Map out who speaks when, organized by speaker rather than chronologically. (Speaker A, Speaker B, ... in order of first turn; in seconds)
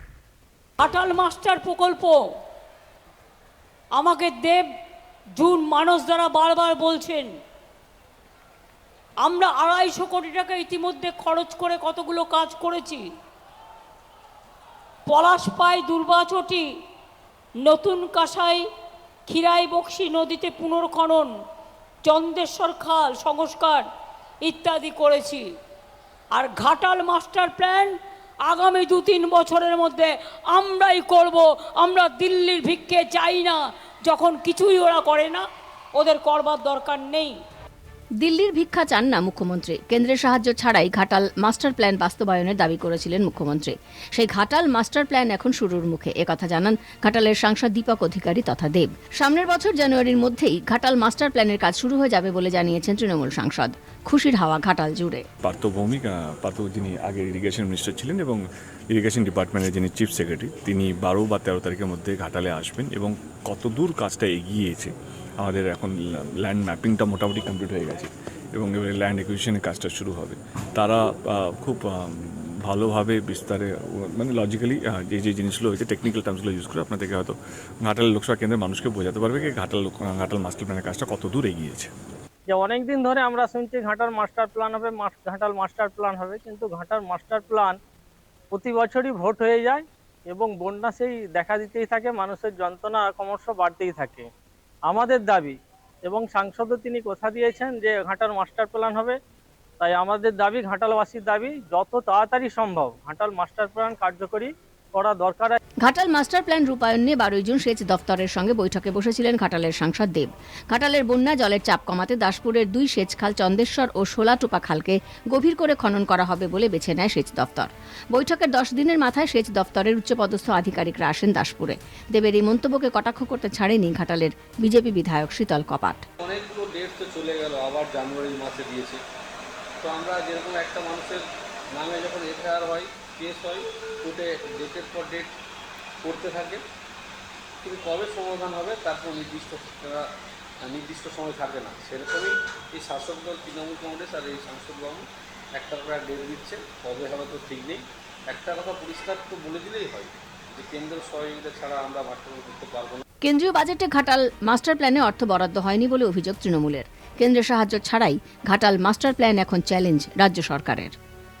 Speaker A: 0.8-2.2, 4.0-4.6, 5.4-7.3, 9.2-13.0, 15.1-16.6, 17.6-18.6, 19.3-21.3, 22.1-23.8, 24.4-25.4, 26.4-27.9, 28.5-33.5, 34.1-35.4, 36.0-37.3
Speaker B: 38.2-55.2, 105.8-126.0, 153.2-160.9
Speaker C: 55.4-58.4, 58.9-71.9, 72.7-81.9
Speaker D: 82.5-87.8, 88.5-94.3, 94.8-99.2, 99.8-105.6
Speaker E: 126.2-129.0, 129.8-131.2, 131.7-135.3, 136.0-136.6, 137.6-140.0, 140.6-153.0